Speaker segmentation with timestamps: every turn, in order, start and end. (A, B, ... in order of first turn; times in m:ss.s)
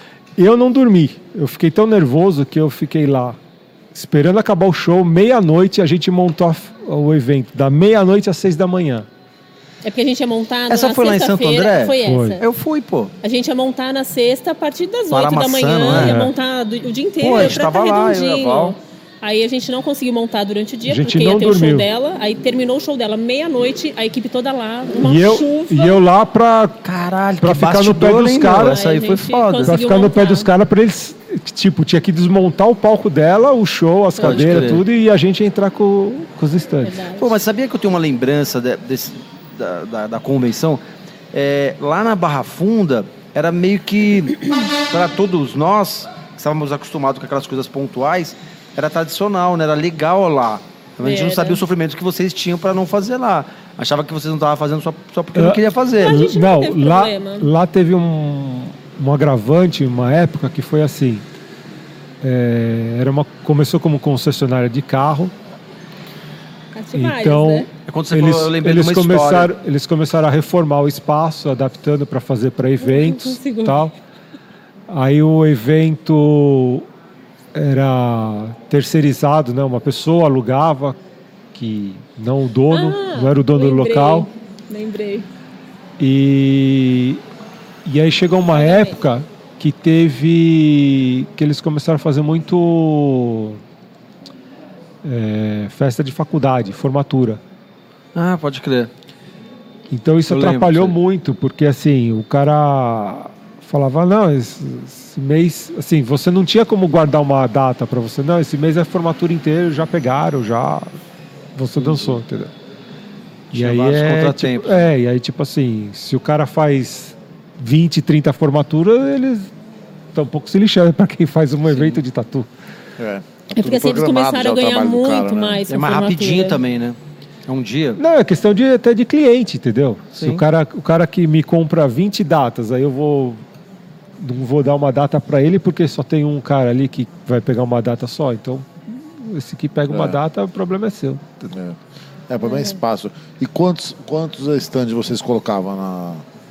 0:00.4-0:03.4 A
0:03.9-0:09.1 A
0:09.8-0:12.4 B
0:10.7-0:13.1 C
0:12.0-0:12.4 A
0:13.2-0:26.0 B
0:15.1-0:16.2 C
0:15.9-0:16.3 A
0:17.2-0:18.8 C
0:20.9-0:21.9 A
0:25.0-0:26.8 A
0:26.8-0:29.8 C
0:27.4-0:28.8 A
0:28.6-0:30.5 B
0:29.7-0:37.0 A
0:34.2-0:34.7 B
0:34.2-0:34.8 C
0:36.8-0:37.4 B
0:37.2-0:56.2 C
0:51.0-0:51.6 B
0:55.4-1:01.2 A
0:56.0-0:57.5 B
1:02.2-1:05.3 A
1:06.7-1:07.7 B
1:07.0-1:13.9 A
1:07.9-1:09.5 C
1:12.8-1:13.9 B
1:14.9-1:16.9 A
1:17.5-1:21.0 A
1:21.5-1:24.3 A
1:22.7-1:25.3 B
1:26.0-1:27.2 A
1:27.8-1:33.6 A
1:28.5-1:29.0 B
1:35.0-1:37.4 A
1:38.1-1:38.9 C
1:39.9-1:51.0 A
1:40.3-1:41.0 C
1:51.6-1:52.5 A
1:51.8-1:52.2 C
1:53.5-1:54.9 C
1:53.5-1:59.5 A
2:00.1-2:02.5 A
2:01.7-2:02.0 C
2:03.0-2:05.6 D
2:03.5-2:06.6 B
2:05.7-2:08.0 C
2:08.0-2:13.4 A
2:10.2-2:10.4 C
2:14.2-2:21.5 A
2:19.9-2:20.2 D
2:21.5-2:21.8 D
2:22.3-2:26.2 D